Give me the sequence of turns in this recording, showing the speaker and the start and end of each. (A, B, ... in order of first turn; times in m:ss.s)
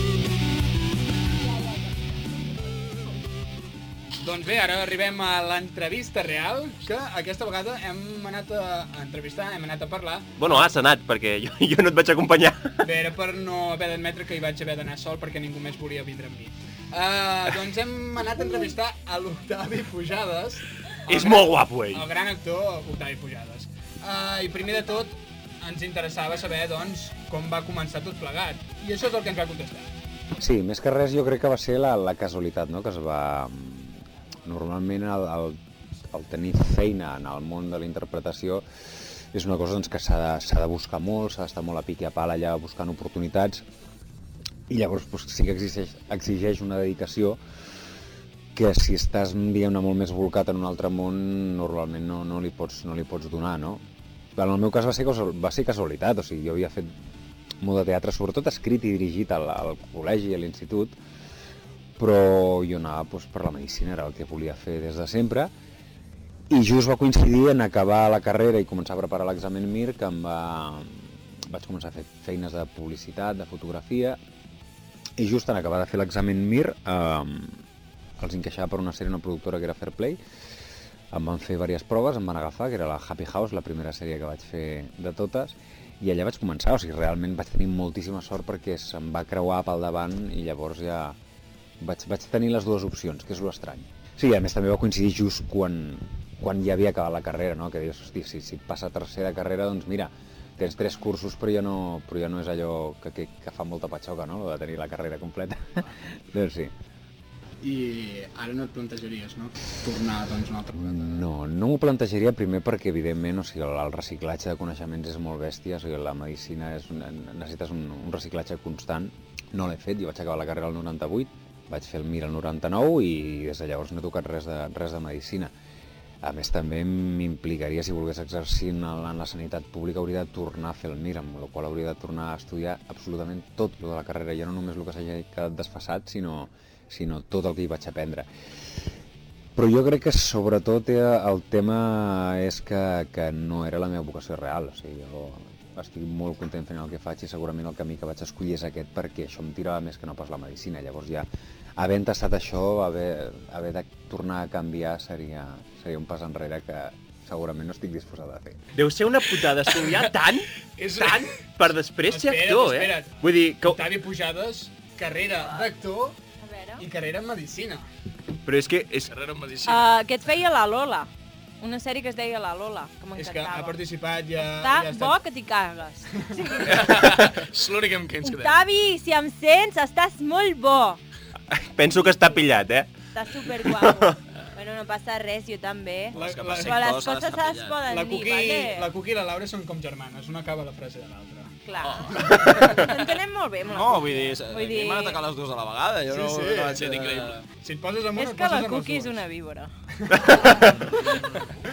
0:04.2-0:10.3 A
0:10.4-0:12.7 B
0:12.8-0:29.9 A
0:21.1-0:22.1 B
0:30.4-0:35.6 C
0:36.1-0:38.6 C
0:39.3-0:43.6 C
0:44.7-0:47.4 C
0:48.6-0:53.8 C
0:54.4-0:56.9 C
0:57.6-1:01.0 C
1:02.0-1:05.5 C
1:06.5-1:14.2 C
1:15.2-1:17.6 C
1:18.2-1:20.2 C
1:21.1-1:31.2 C
1:31.8-1:45.6 C
1:46.3-1:46.7 C
1:47.6-1:50.8 A
1:50.7-2:05.5 C
2:06.2-2:18.3 C
2:19.6-2:38.6 C
2:38.8-2:40.5 B
2:40.8-2:41.3 D
2:41.0-2:43.8 B
2:42.1-2:46.2 A
2:46.4-2:46.8 E
2:46.8-2:47.9 A
2:48.5-2:49.1 B
2:49.1-2:49.9 D
2:49.6-2:51.1 E
2:51.6-2:53.8 E
2:53.2-2:55.2 A
2:54.4-2:57.1 E
2:56.7-2:58.6 D
2:58.2-3:01.0 E
3:01.5-3:02.9 B
3:02.0-3:02.2 E
3:03.2-3:08.9 E
3:03.6-3:04.1 B
3:06.1-3:06.8 A
3:06.1-3:07.8 F
3:07.9-3:11.6 A
3:11.7-3:15.2 E
3:12.1-3:12.8 A
3:13.7-3:17.2 F
3:16.1-3:16.9 A
3:16.8-3:17.4 D
3:17.6-3:19.2 A
3:18.2-3:19.7 E
3:20.0-3:21.5 A